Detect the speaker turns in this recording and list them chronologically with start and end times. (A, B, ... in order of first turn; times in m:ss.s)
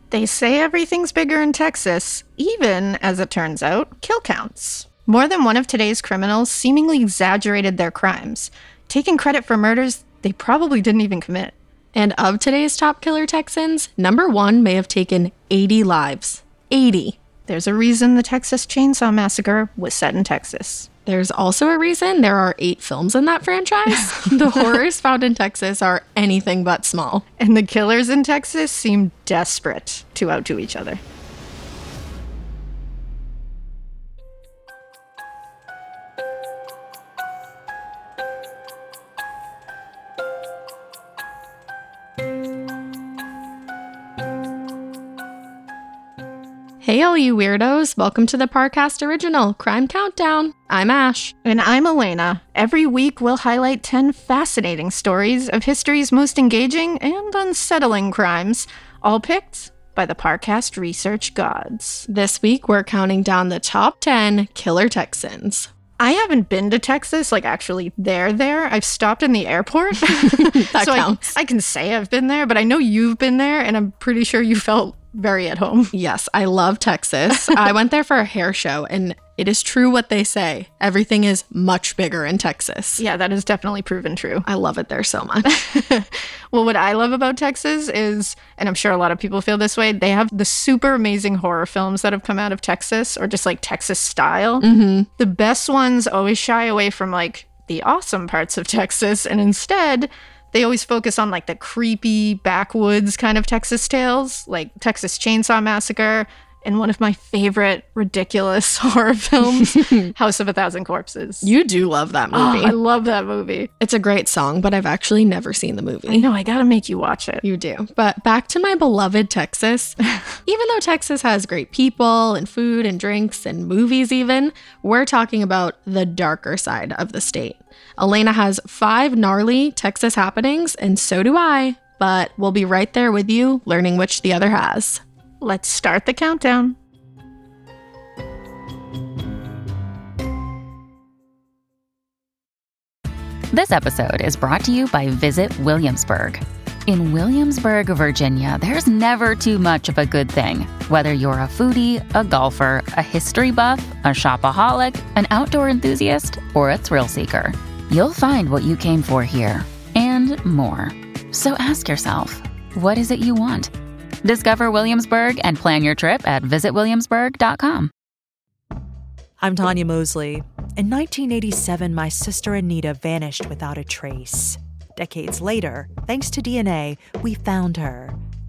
0:00.1-0:11.5 A
0:11.9-0:17.2 B
0:17.5-0:20.9 A
0:21.0-0:27.2 B
0:27.4-0:31.0 A
0:46.8-0:51.3 B
0:51.4-1:02.0 A
1:02.1-1:05.7 B
1:06.0-1:15.9 A
1:10.0-1:11.2 B
1:15.9-1:23.0 B
1:23.0-1:24.4 A
1:24.4-1:25.5 B
1:25.4-1:51.5 A
1:34.6-1:35.1 B
1:49.4-1:50.1 B
1:51.4-1:52.8 B
1:52.3-1:53.7 A
1:53.8-1:56.3 B
1:56.1-1:57.4 A
1:57.4-2:15.0 B
2:15.4-2:16.8 A
2:23.5-2:43.7 C
2:44.2-2:47.9 C
2:49.4-2:58.2 D